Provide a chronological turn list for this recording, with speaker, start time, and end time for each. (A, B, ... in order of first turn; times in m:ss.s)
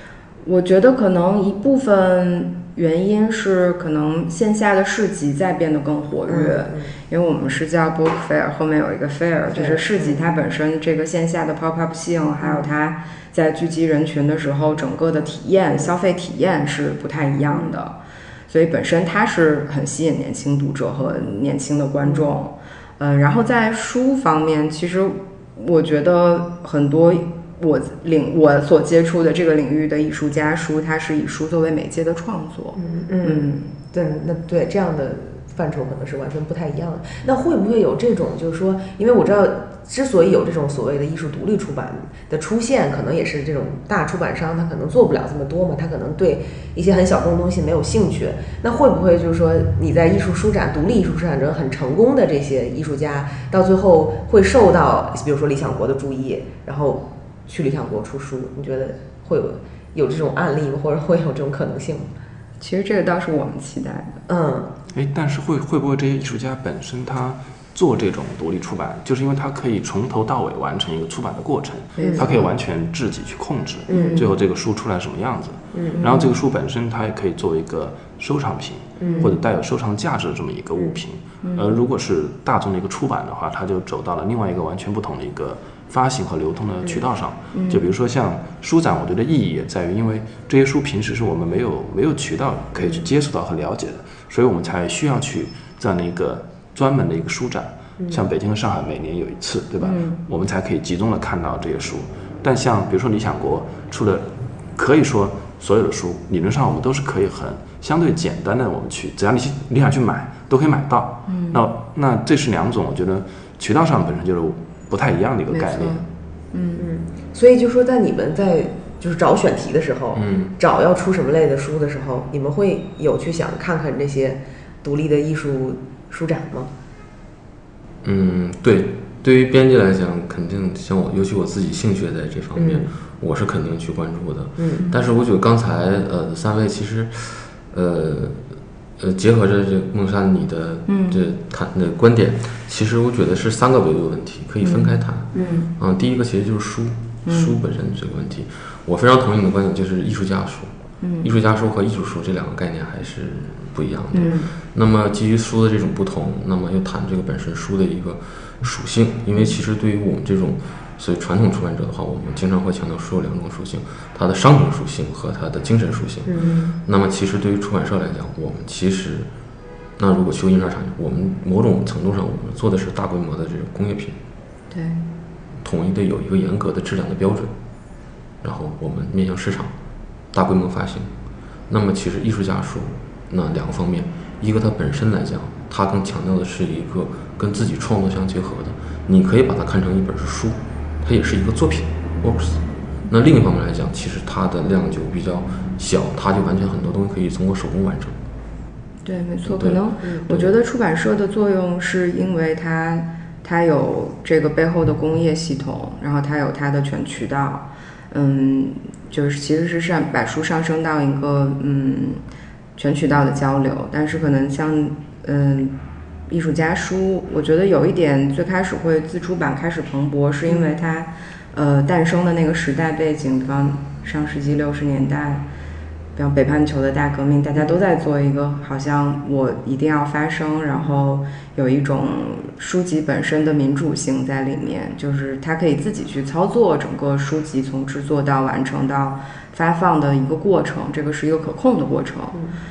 0:00.4-0:18.0 A
0:06.3-0:06.9 B
0:09.5-0:10.2 B
0:12.4-0:12.7 B
0:17.5-0:17.8 B
0:18.5-0:33.7 A
0:22.0-0:22.3 B
0:32.8-1:02.1 B
1:02.6-1:04.2 A
1:04.3-1:04.7 B
1:04.9-1:56.0 C
1:12.0-1:12.4 A
1:12.0-1:12.5 B
1:13.9-1:14.2 B
1:13.9-1:14.3 A
1:15.7-1:16.0 B
1:16.0-1:16.4 A
1:19.0-1:19.3 B
1:19.0-1:19.3 A
1:21.4-1:21.7 A
1:27.5-1:27.9 A
1:32.8-1:33.0 B
1:38.0-1:38.2 B
1:39.8-1:40.2 A
1:51.3-1:51.6 A
1:55.5-1:56.9 A
1:56.8-2:06.7 B
2:00.1-2:00.6 D
2:08.0-2:18.4 D
2:12.6-2:12.9 B
2:14.6-2:14.8 B
2:19.0-2:49.3 D
2:20.9-2:21.2 A
2:24.6-2:25.7 A
2:27.3-2:27.6 A
2:31.0-2:31.3 A
2:34.1-2:34.5 A
2:46.3-2:46.7 B
2:46.4-2:46.7 A
2:50.0-2:54.2 D
2:54.7-2:55.0 A
2:55.6-2:57.5 D
2:58.4-2:59.7 D
3:00.3-3:01.1 D
3:01.7-3:18.2 D
3:19.0-3:32.2 A
3:19.4-3:20.5 D
3:20.0-3:20.3 B
3:32.8-3:35.8 A
3:36.3-3:45.4 A
3:46.2-4:02.4 A